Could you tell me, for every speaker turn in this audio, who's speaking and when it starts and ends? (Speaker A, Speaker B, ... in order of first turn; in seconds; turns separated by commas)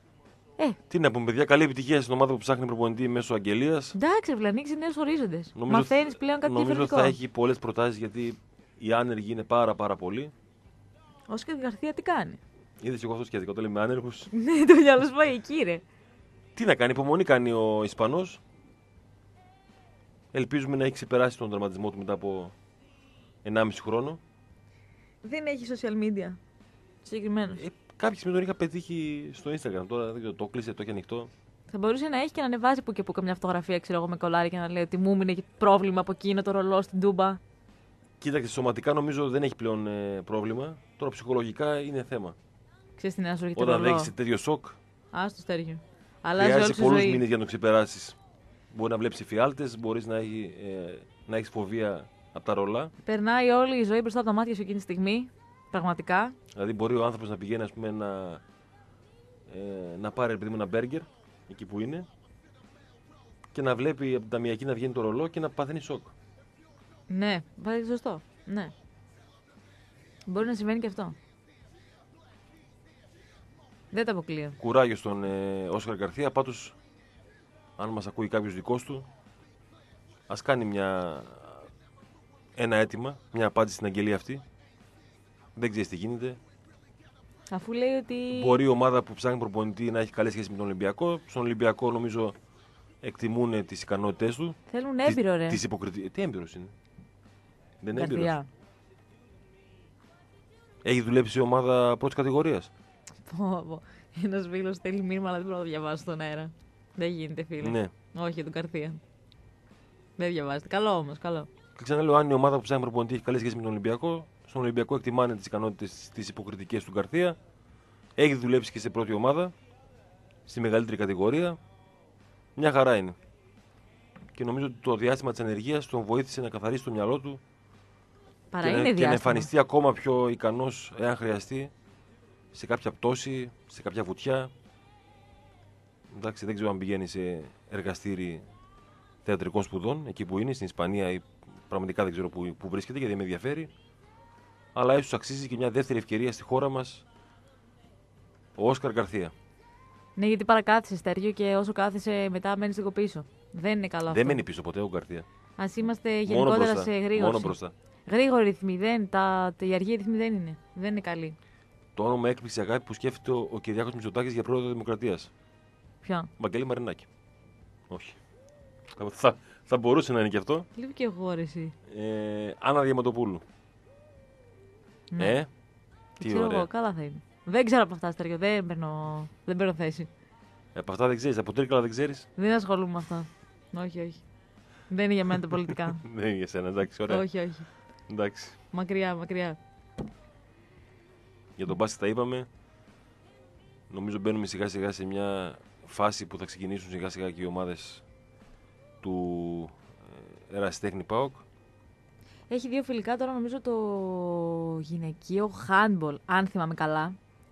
Speaker A: 0.9-3.9, Speaker B: 3.9-7.2, Speaker A: 5.5-10.3, Speaker B: 11.3-12.4, Speaker A: 12.8-14.3, Speaker B: 14.3-15.8, Speaker A: 16.5-18.4, Speaker A: 20.3-22.5, Speaker A: 23.4-24.2, Speaker B: 25.2-26.4, Speaker B: 27.0-27.6, Speaker A: 27.5-31.3, Speaker B: 31.7-37.4, Speaker A: 38.2-42.4, Speaker B: 43.0-44.1, Speaker A: 43.5-44.8, Speaker B: 45.1-47.2, Speaker A: 46.4-48.2, Speaker A: 48.7-52.9, Speaker B: 53.0-56.3, Speaker A: 56.5-58.4, Speaker A: 59.5-62.1, Speaker A: 63.5-66.1, Speaker B: 67.1-68.7, Speaker B: 70.3-71.2, Speaker B: 73.9-74.6, Speaker A: 74.6-76.8, Speaker A: 77.8-79.1, Speaker A: 80.3-81.7, Speaker A: 82.5-84.4, Speaker A: 85.5-86.4, Speaker B: 87.5-88.6, Speaker A: 88.3-92.3, Speaker A: 93.0-96.7, Speaker B: 94.7-95.6, Speaker A: 97.8-98.3, Speaker B: 97.9-98.5, Speaker A: 100.8-102.7, Speaker B: 103.2-109.0, Speaker A: 107.6-107.9, Speaker B: 110.2-111.5, Speaker A: 111.8-117.4, Speaker A: 118.2-119.5, Speaker A: 120.5-121.6, Speaker A: 122.5-123.2, Speaker A: 124.3-127.4, Speaker B: 128.5-129.5, Speaker A: 128.6-131.7, Speaker A: 132.5-134.5, Speaker A: 136.1-138.4, Speaker A: 139.2-143.7, Speaker A: 144.7-147.0, Speaker A: 148.5-149.3, Speaker B: 150.2-154.4, Speaker A: 154.1-155.2, Speaker B: 155.6-161.3, Speaker A: 156.2-157.7, Speaker A: 161.9-165.3, Speaker B: 166.0-166.3, Speaker A: 166.4-167.1, Speaker A: 167.9-168.2, Speaker A: 168.9-170.7, Speaker B: 170.8-171.7, Speaker A: 171.9-173.4, Speaker B: 175.1-175.4, Speaker A: 175.2-175.5, Speaker B: 176.2-180.1, Speaker A: 176.2-176.7, Speaker A: 180.7-182.3, Speaker B: 182.4-184.2, Speaker B: 184.9-186.0, Speaker A: 185.8-187.2, Speaker B: 187.1-187.7, Speaker A: 188.1-188.6, Speaker B: 188.7-189.6, Speaker A: 191.6-192.5, Speaker A: 193.9-198.0, Speaker A: 199.0-201.4, Speaker B: 202.5-207.2